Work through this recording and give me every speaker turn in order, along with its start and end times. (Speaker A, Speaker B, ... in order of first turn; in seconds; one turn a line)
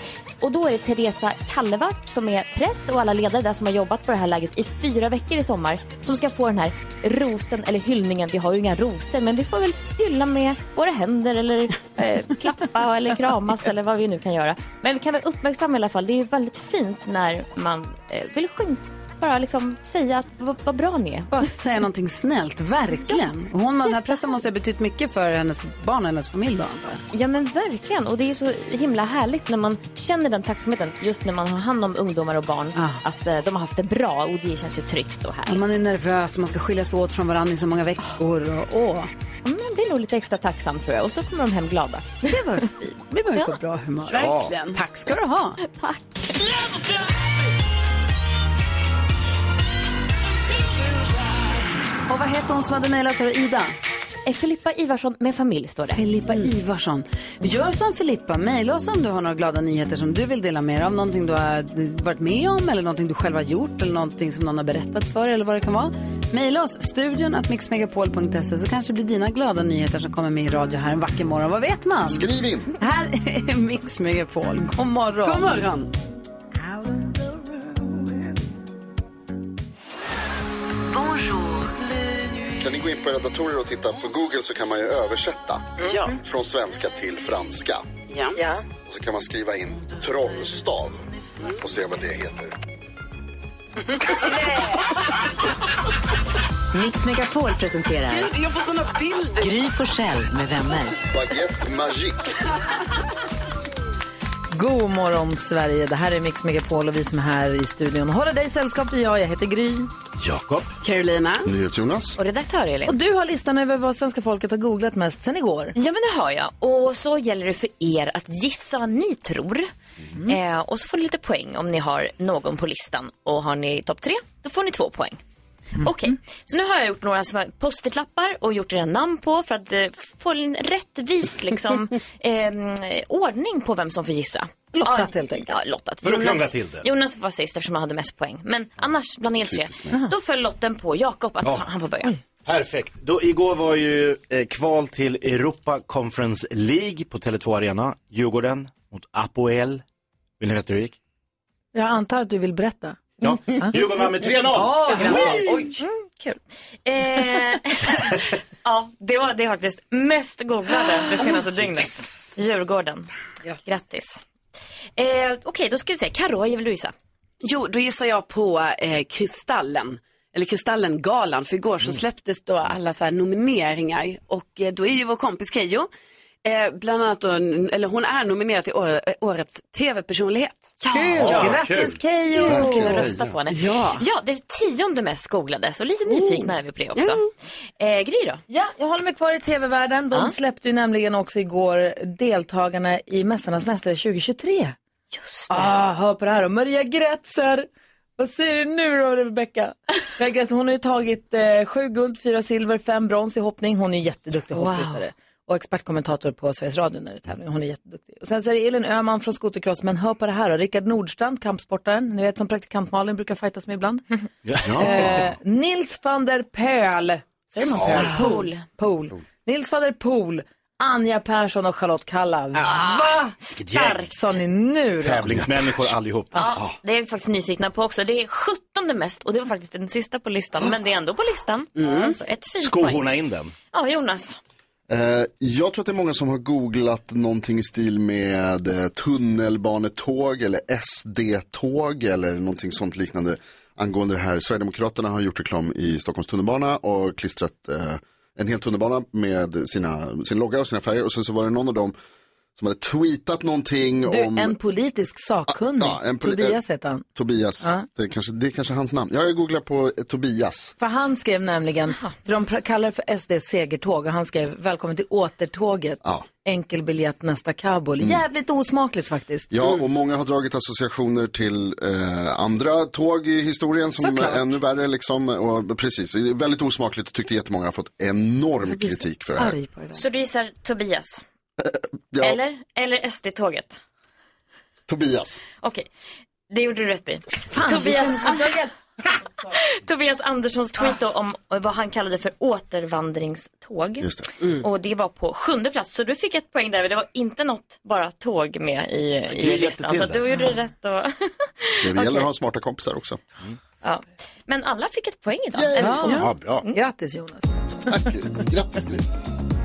Speaker A: 0.4-21.3
Speaker B: 21.3-27.0
Speaker A: 27.1-35.8
Speaker B: 32.7-33.0
Speaker B: 35.5-39.1
Speaker A: 39.4-42.3
Speaker B: 42.3-45.6
Speaker C: 44.0-44.8
Speaker D: 44.2-44.5
Speaker A: 45.6-46.8
Speaker B: 52.1-53.7
Speaker A: 54.2-56.0
Speaker B: 55.9-72.2
Speaker E: 72.0-72.7
Speaker B: 72.8-75.6
Speaker C: 75.2-75.9
Speaker F: 80.9-81.7
Speaker E: 82.6-87.9
Speaker C: 85.8-86.2
Speaker C: 88.1-88.4
Speaker E: 88.8-92.5
Speaker C: 94.4-94.8
Speaker F: 96.7-98.3
Speaker C: 98.1-99.6
Speaker F: 99.4-101.0
Speaker E: 101.1-102.3
Speaker B: 104.5-109.9
Speaker D: 110.2-110.7
Speaker C: 110.8-111.5
Speaker E: 111.4-112.2
Speaker A: 112.2-113.0
Speaker B: 112.8-115.7
Speaker A: 115.7-119.7
Speaker A: 120.2-125.2
Speaker A: 125.8-142.1
Speaker B: 134.7-135.5
Speaker D: 136.0-136.9
Speaker E: 139.4-139.8
Speaker D: 141.4-141.7
Speaker D: 142.4-149.8
Speaker D: 150.4-151.0
Speaker B: 151.7-155.6
Speaker D: 153.2-155.7
Speaker C: 154.9-155.7
Speaker A: 155.8-163.1
Speaker A: 163.6-164.2
Speaker A: 165.0-166.9
Speaker C: 167.4-175.9
Speaker C: 176.4-180.8
Speaker A: 180.8-181.3
Speaker B: 180.8-183.1
Speaker D: 181.2-182.0
Speaker A: 182.3-187.3
Speaker E: 182.4-183.3
Speaker C: 183.5-184.0
Speaker C: 186.9-187.2
Speaker A: 187.8-188.4
Speaker B: 188.5-194.8
Speaker A: 195.1-195.7
Speaker B: 195.5-197.7
Speaker B: 198.2-214.0
Speaker A: 204.5-205.0
Speaker D: 214.4-215.2
Speaker E: 214.6-215.2
Speaker B: 214.7-223.3
Speaker A: 217.7-218.6
Speaker D: 217.8-218.1
Speaker A: 222.6-224.4
Speaker D: 223.6-224.0
Speaker B: 224.1-225.3
Speaker D: 225.0-226.6
Speaker A: 226.3-233.1
Speaker C: 231.8-232.2
Speaker D: 232.6-233.5
Speaker A: 233.7-234.4
Speaker E: 234.9-251.9
Speaker E: 252.6-254.6
Speaker B: 254.1-257.0
Speaker E: 255.5-256.6
Speaker E: 257.1-260.7
Speaker B: 260.8-269.5
Speaker E: 269.5-279.6
Speaker B: 274.0-274.6
Speaker B: 278.7-280.0
Speaker A: 279.9-281.2
Speaker E: 281.6-282.4
Speaker A: 282.2-283.8
Speaker E: 284.9-285.4
Speaker A: 285.6-285.9
Speaker A: 286.5-288.5
Speaker B: 287.5-288.7
Speaker A: 289.5-302.3
Speaker D: 299.3-300.2
Speaker E: 301.8-303.2
Speaker A: 303.8-306.7
Speaker B: 305.8-308.0
Speaker C: 306.0-306.3
Speaker D: 306.1-306.6
Speaker E: 307.9-309.1